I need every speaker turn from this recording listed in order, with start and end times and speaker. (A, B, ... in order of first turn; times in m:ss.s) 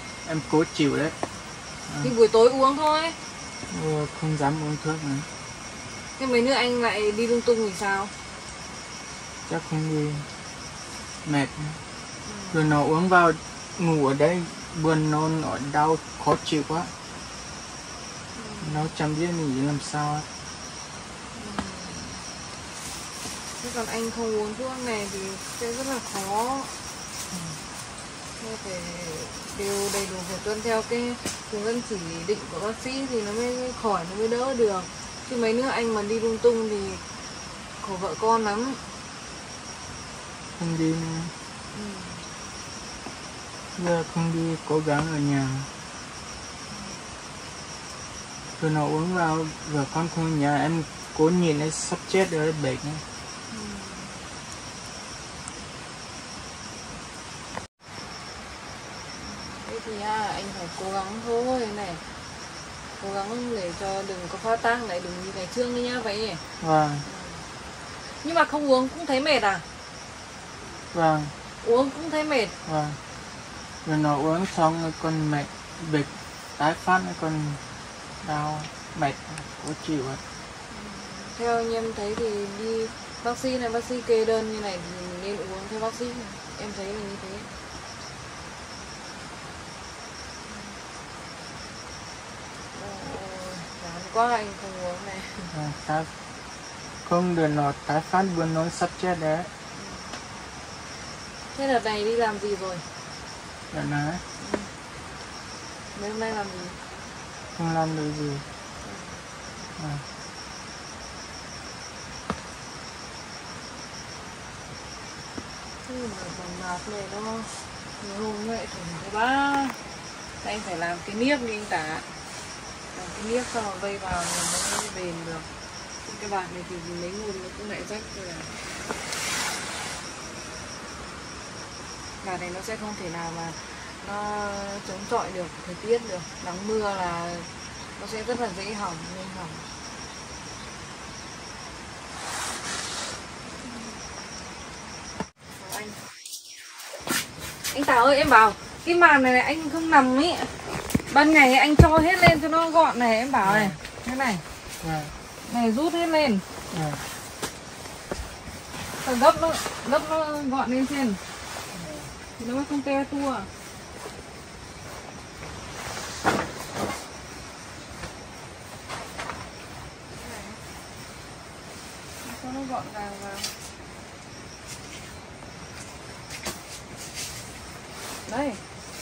0:00.2-0:01.2 A
0:02.0-0:03.2 B
0:03.7-0:05.3 A
0:06.2-0:08.1 B
0:09.5-0:10.3 A
0:11.2-0:11.8 A
0:12.2-0:12.6 B
0:12.5-0:16.9 A
0:18.4-0:18.8 B
0:18.6-0:20.3 A
0:21.4-0:22.2 B
0:23.6-0:26.7 B
0:27.3-0:27.6 A
0:28.4-0:37.0 B
0:37.8-0:38.8 B
0:40.6-0:41.3 A
0:41.7-0:42.2 B
0:43.7-0:45.7 A
0:46.7-0:47.0 B
0:48.6-0:53.0 A
0:53.5-0:54.2 B
0:59.2-1:02.0 B
1:03.0-1:06.4 B
1:06.6-1:07.1 A
1:07.0-1:07.4 B
1:08.2-1:09.6 B
1:10.9-1:11.3 A
1:11.6-1:12.5 B
1:12.6-1:13.0 A
1:13.8-1:17.6 A
1:18.2-1:20.2 A
1:20.7-1:27.5 B
1:30.5-1:30.8 B
1:32.7-1:35.5 B
1:35.5-1:36.1 A
1:37.0-1:39.5 A
1:39.8-1:40.1 B
1:41.6-1:42.8 B
1:43.7-1:44.2 A
1:44.4-1:44.7 B
1:45.9-1:46.8 B
1:47.6-1:48.4 A
1:48.8-1:49.2 B
1:49.8-1:50.0 A
1:55.8-1:59.8 B
2:00.4-2:02.1 B
2:02.9-2:05.5 B
2:06.0-2:08.5 B
2:12.2-2:19.6 B
2:25.6-2:26.0 B
2:27.7-2:30.5 B
2:31.1-2:34.4 B
2:33.4-2:33.8 A
2:34.8-2:35.1 A
2:35.4-2:36.4 B
2:36.7-2:37.0 A
2:39.0-2:41.2 B
2:41.7-2:42.1 A
2:42.4-2:43.5 B
2:50.1-2:50.6 B
2:52.2-2:53.5 B
2:58.3-2:58.6 B